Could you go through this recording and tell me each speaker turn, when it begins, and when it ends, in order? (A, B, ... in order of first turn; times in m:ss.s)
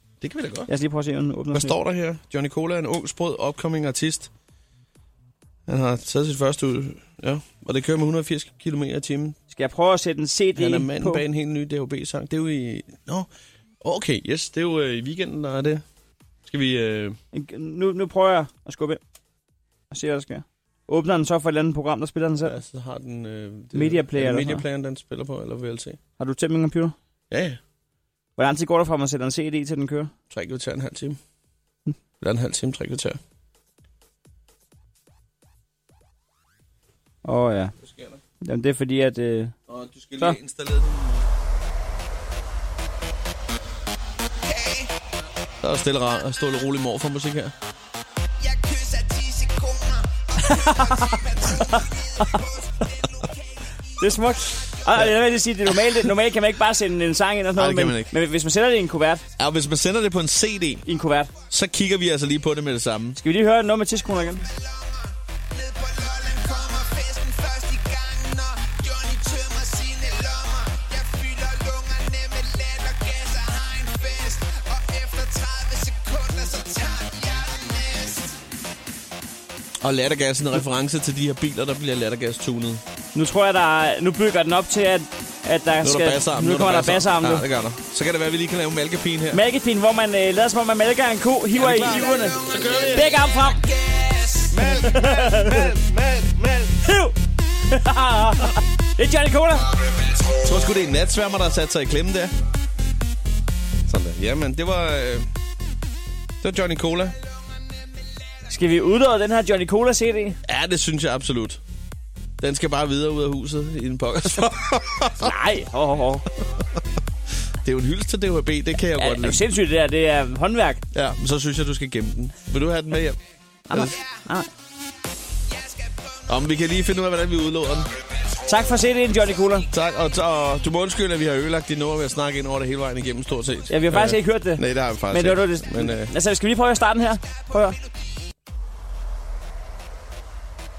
0:00.2-0:00.7 A
0:00.7-0:01.8 B
0:01.5-0:04.3 A
0:05.7-0:09.4 A
0:09.5-0:11.2 B
0:10.6-0:13.3 A
0:13.8-0:15.8 A
0:16.5-0:17.2 A
0:17.3-0:19.0 B
0:19.9-0:22.6 B
0:22.4-0:26.0 A
0:23.7-0:24.6 B
0:26.2-0:27.0 B
0:27.3-0:27.6 A
0:28.4-0:30.1 B
0:30.3-0:31.2 A
0:32.2-0:33.2 A
0:37.2-0:37.8 B
0:37.8-0:38.2 A
0:38.4-0:39.6 B
0:39.7-0:41.3 A
0:45.6-0:47.5 A
0:50.4-0:52.4 B
0:54.0-0:59.2 B
0:57.6-0:58.1 A
0:59.4-1:00.8 A
1:00.8-1:01.3 B
1:01.5-1:03.2 A
1:03.2-1:04.5 B
1:19.8-1:22.8 A
1:23.1-1:27.5 B
1:25.8-1:29.4 A
1:29.3-1:33.7 B
1:31.6-1:33.1 A
1:34.5-1:36.7 A
1:34.6-1:35.7 B
1:36.8-1:37.2 B
1:37.7-1:39.7 B
1:40.4-1:42.3 A
1:43.9-1:45.3 A
1:46.4-1:47.2 A
1:48.5-1:50.4 B
1:50.5-1:51.6 A
1:52.4-1:55.3 A
1:55.2-1:56.2 B
1:57.6-1:59.4 A
1:59.0-2:00.8 B
2:00.9-2:03.2 A
2:03.7-2:04.5 B
2:06.3-2:07.9 A
2:08.5-2:09.7 B
2:09.7-2:16.1 A
2:13.7-2:17.8 B